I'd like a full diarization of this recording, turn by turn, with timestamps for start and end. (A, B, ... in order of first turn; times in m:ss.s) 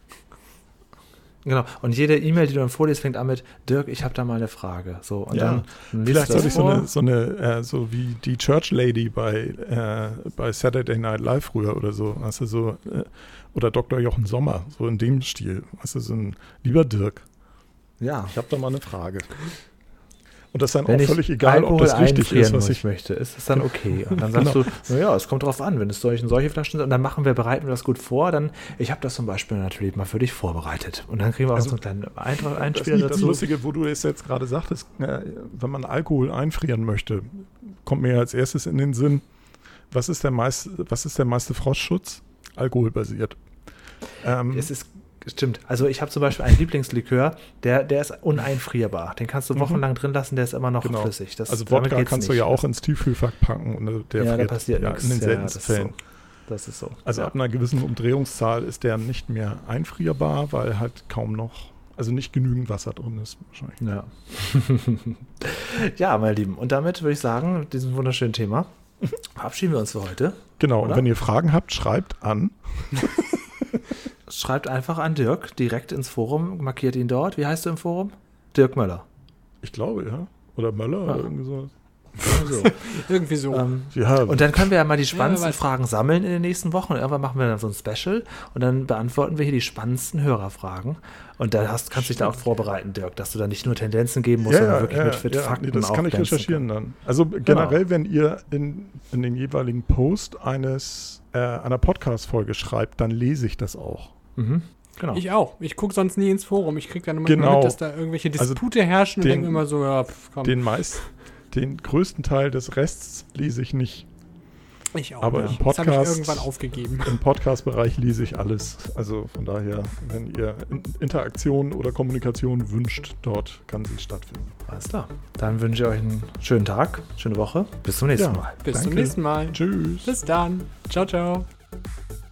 0:01.4-0:06.9 A
0:05.3-0:17.2 B
0:06.1-0:06.8 C
0:18.0-0:18.3 A
0:18.3-0:19.4 B
0:20.5-0:22.8 B
0:20.8-0:33.5 A
0:24.3-0:24.6 B
0:32.5-0:39.2 B
0:39.9-0:43.4 B
0:44.2-0:44.7 B
0:44.4-0:52.6 A
0:49.5-0:49.8 B
0:50.8-0:56.0 B
0:54.2-0:57.3 A
0:57.0-1:03.8 B
1:03.8-1:08.7 A
1:09.2-1:11.0 A
1:10.6-1:13.8 B
1:14.3-1:19.0 A
1:19.6-1:21.7 B
1:22.2-1:22.9 A
1:22.3-1:23.7 C
1:23.5-1:36.6 A
1:23.9-1:24.7 B
1:25.1-1:25.6 C
1:34.4-1:44.1 B
1:37.4-1:37.8 A
1:44.4-1:45.2 A
1:45.1-1:51.1 C
1:47.2-1:47.8 B
1:48.4-1:48.6 B
1:49.2-1:49.6 B
1:50.4-1:54.1 B
1:54.9-1:57.2 C
1:55.2-1:56.5 B
1:57.0-2:04.5 B
2:04.7-2:08.6 A
2:08.2-2:10.1 B
2:08.6-2:11.5 C